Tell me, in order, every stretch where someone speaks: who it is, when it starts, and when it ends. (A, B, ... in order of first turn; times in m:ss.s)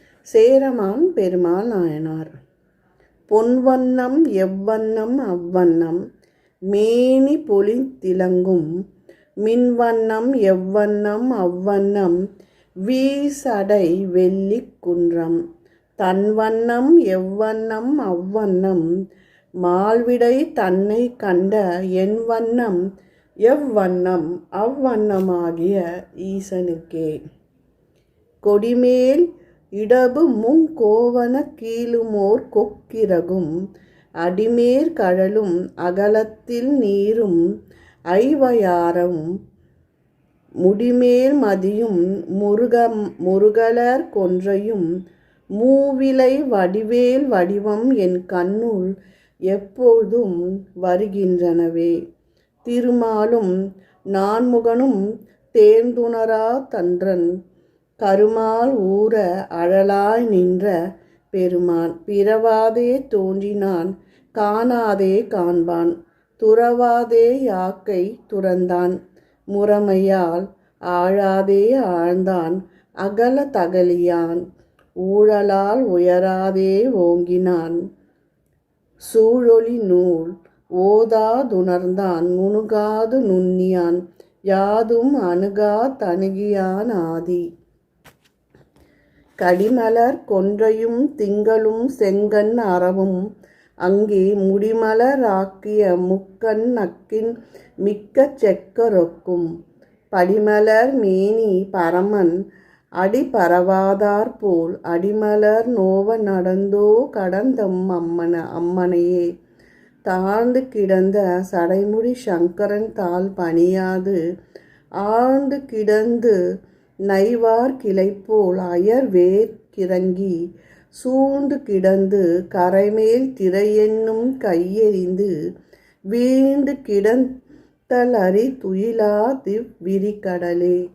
0:00.3-0:02.4 A
0:03.3-0:06.0 A
0:06.7-0:08.6 A
0:09.4-0:12.2 A
0:12.8-0:15.4 A
0:16.0-0:18.8 A
0:19.6-0:22.8 A
0:23.4-0:27.2 A
0:28.4-0:33.5 A
0:34.2-0:37.4 A
0:38.1-0:39.3 A
0:40.6-0:44.8 A
0:45.6-0:48.9 A
0:49.5-0:52.0 A
0:52.6-0:53.5 A
0:54.1-0:55.0 A
0:55.5-0:57.3 A
0:58.0-1:00.7 A
1:01.3-1:09.0 A
1:09.5-1:14.4 A
1:15.0-1:17.8 A
1:19.0-1:27.4 A
1:29.4-1:33.2 A
1:33.8-1:39.5 A
1:40.1-1:42.4 A
1:43.0-1:49.3 A
1:50.0-1:54.2 A
1:55.0-1:56.4 A
1:57.1-2:00.3 A
2:01.0-2:05.3 A
2:06.1-2:07.3 A
2:07.9-2:10.8 A